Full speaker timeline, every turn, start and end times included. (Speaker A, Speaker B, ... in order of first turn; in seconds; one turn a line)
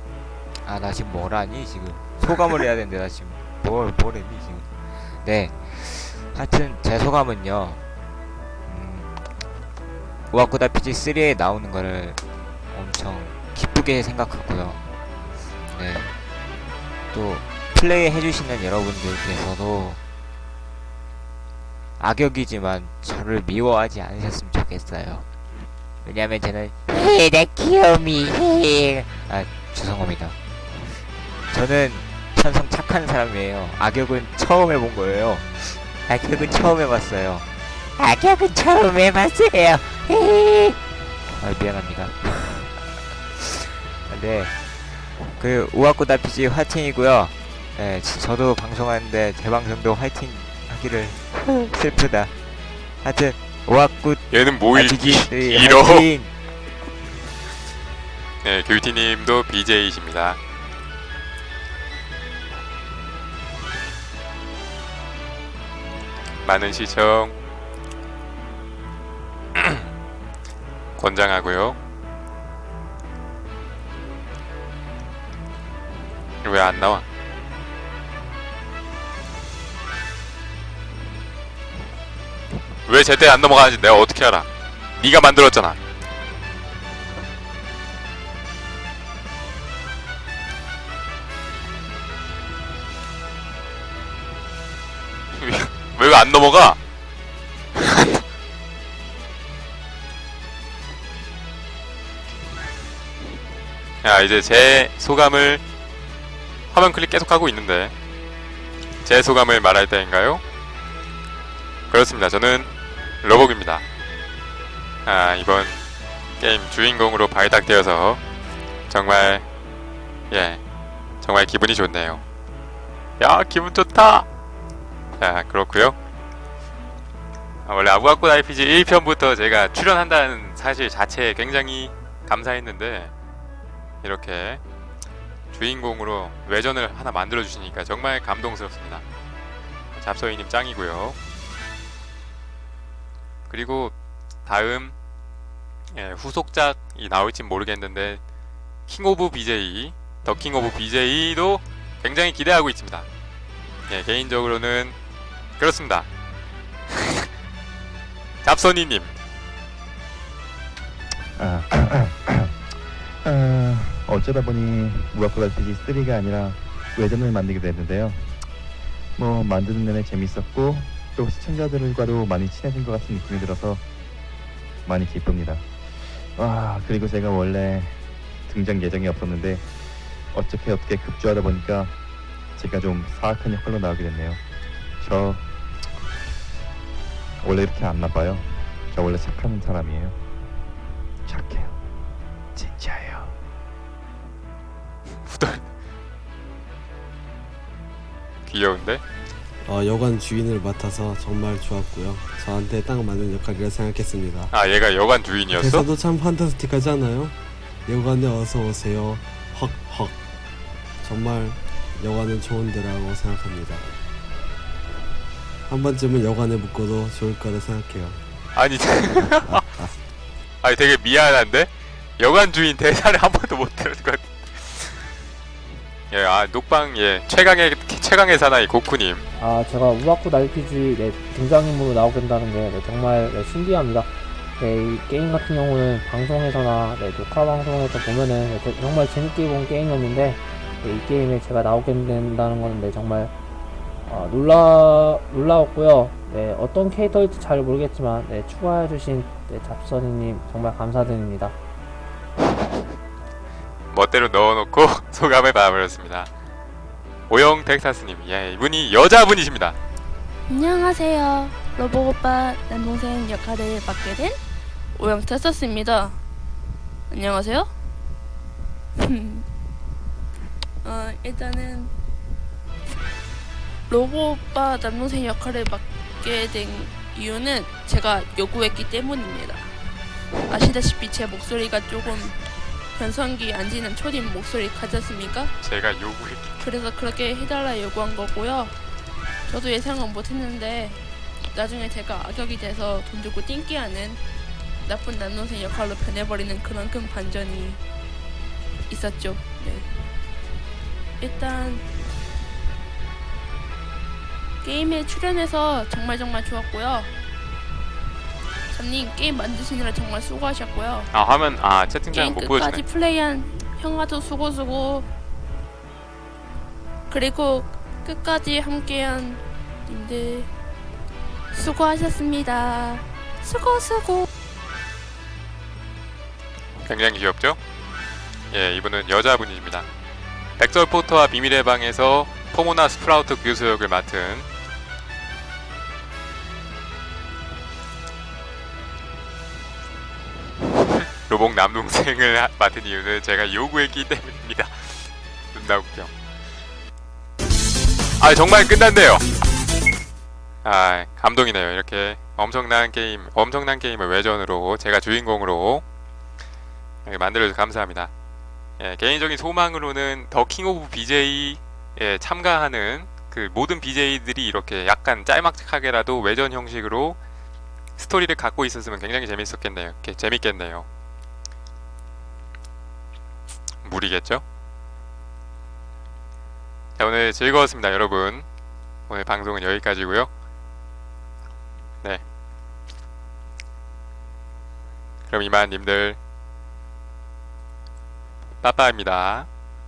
Speaker A: 0.6-7.8
Speaker A: 8.7-9.2
Speaker A: 10.3-12.2
Speaker A: 12.7-14.8
Speaker A: 15.7-16.1
Speaker A: 17.1-20.0
Speaker A: 22.0-25.3
Speaker A: 26.0-42.8
Speaker A: 43.4-52.4
Speaker A: 53.0-56.3
Speaker B: 54.3-56.1
Speaker B: 58.4-60.4
Speaker B: 66.5-67.3
Speaker B: 69.6-69.9
Speaker B: 71.0-71.8
Speaker B: 76.4-77.0
Speaker B: 82.9-85.8
Speaker B: 95.4-96.8
Speaker B: 97.8-98.2
Speaker B: 104.0-105.6
Speaker B: 106.7-107.9
Speaker B: 109.0-110.4
Speaker B: 111.9-112.7
Speaker B: 113.2-113.8
Speaker B: 115.1-115.8
Speaker B: 116.4-118.2
Speaker B: 118.9-119.5
Speaker B: 120.3-120.6
Speaker B: 121.2-122.2
Speaker B: 123.2-124.3
Speaker B: 125.2-126.0
Speaker B: 127.7-133.1
Speaker B: 134.0-134.6
Speaker B: 135.5-139.0
Speaker B: 140.0-141.2
Speaker B: 143.5-143.9
Speaker B: 144.5-144.9
Speaker B: 145.9-148.2
Speaker B: 148.9-153.1
Speaker B: 153.9-155.0
Speaker B: 155.6-156.1
Speaker B: 156.9-157.2
Speaker B: 158.4-159.2
Speaker C: 161.3-168.4
Speaker C: 169.2-173.8
Speaker C: 174.8-175.7
Speaker C: 176.3-179.7
Speaker C: 180.3-182.0
Speaker C: 182.6-184.4
Speaker C: 185.0-185.5
Speaker C: 187.4-190.2
Speaker C: 191.2-191.9
Speaker C: 192.6-193.4
Speaker B: 195.3-195.6
Speaker B: 198.5-199.0
Speaker D: 199.7-204.5
Speaker B: 204.5-205.9
Speaker D: 205.5-207.3
Speaker D: 207.9-210.2
Speaker D: 211.0-213.8
Speaker D: 215.7-218.2
Speaker B: 218.6-219.6
Speaker B: 220.6-225.1
Speaker B: 226.1-229.2
Speaker E: 229.3-243.3
Speaker E: 244.1-251.6
Speaker B: 253.9-256.3
Speaker B: 257.3-259.8
Speaker F: 260.5-264.4
Speaker F: 264.9-266.2
Speaker F: 267.1-267.7
Speaker F: 269.0-269.5
Speaker F: 270.8-271.9
Speaker F: 273.9-279.7
Speaker F: 280.5-282.4
Speaker F: 282.9-285.5
Speaker B: 285.6-286.6
Speaker F: 286.6-288.8
Speaker F: 289.5-294.2
Speaker F: 294.9-297.8
Speaker F: 298.9-299.9
Speaker F: 301.2-301.8
Speaker F: 304.6-307.1
Speaker F: 308.7-311.1
Speaker B: 311.1-312.8
Speaker F: 312.1-315.1
Speaker F: 317.1-320.5
Speaker F: 321.5-324.3
Speaker B: 326.9-327.6
Speaker B: 328.5-329.9
Speaker B: 330.6-334.5
Speaker B: 341.3-346.1
Speaker B: 348.2-349.2
Speaker B: 350.6-355.8
Speaker B: 357.1-358.1
Speaker B: 358.8-367.2
Speaker B: 368.0-370.9
Speaker B: 373.9-374.4
Speaker B: 377.0-378.5
Speaker B: 379.1-380.3
Speaker B: 385.3-386.2
Speaker B: 388.6-389.5